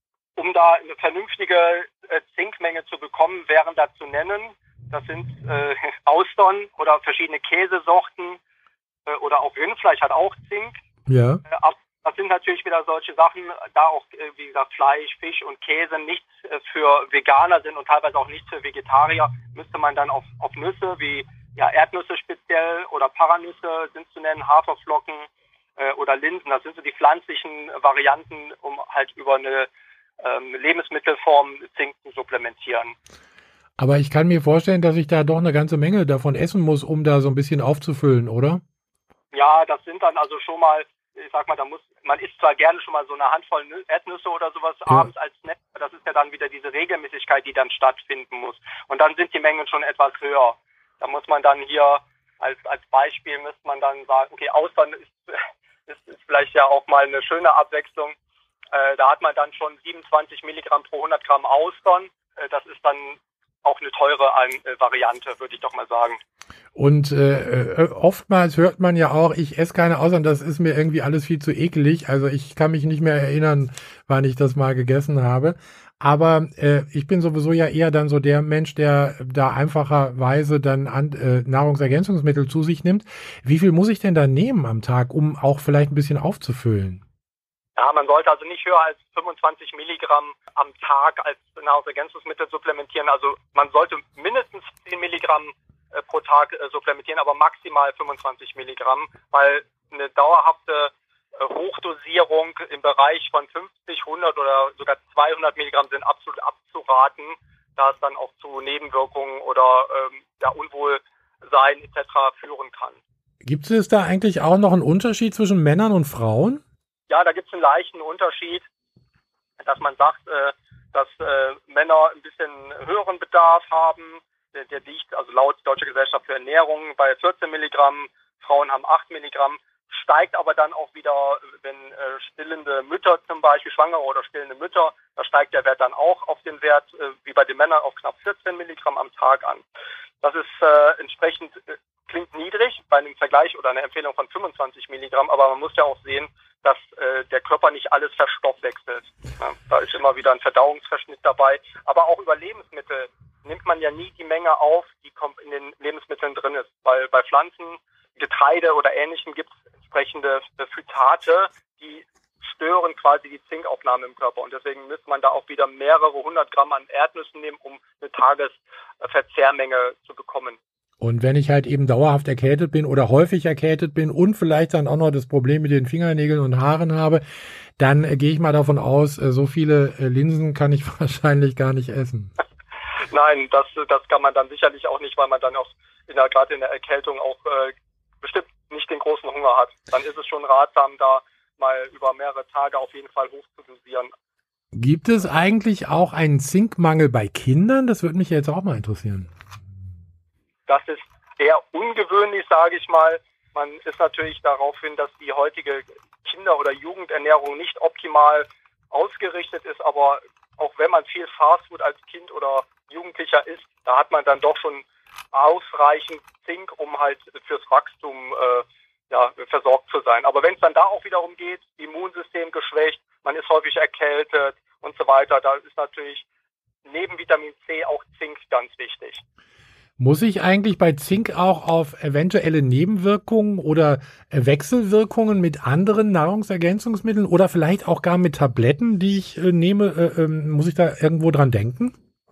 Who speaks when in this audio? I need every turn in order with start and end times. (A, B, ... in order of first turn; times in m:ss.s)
0:00.4-0:08.4 A
0:09.1-0:10.8 A
0:11.1-0:11.4 B
0:11.5-0:33.0 A
0:33.8-0:38.6 B
0:39.3-0:58.2 A
0:58.7-1:06.2 A
1:06.8-1:27.0 B
1:27.8-1:53.0 A
1:53.4-1:56.6 B
1:57.1-1:58.6 A
1:59.6-2:19.6 A
2:20.2-2:50.6 A
2:51.0-2:57.2 B
2:57.8-3:02.3 B
3:03.1-3:14.1 A
3:14.7-3:19.3 B
3:20.7-3:46.2 A
3:46.9-3:49.2 A
3:50.0-4:01.9 B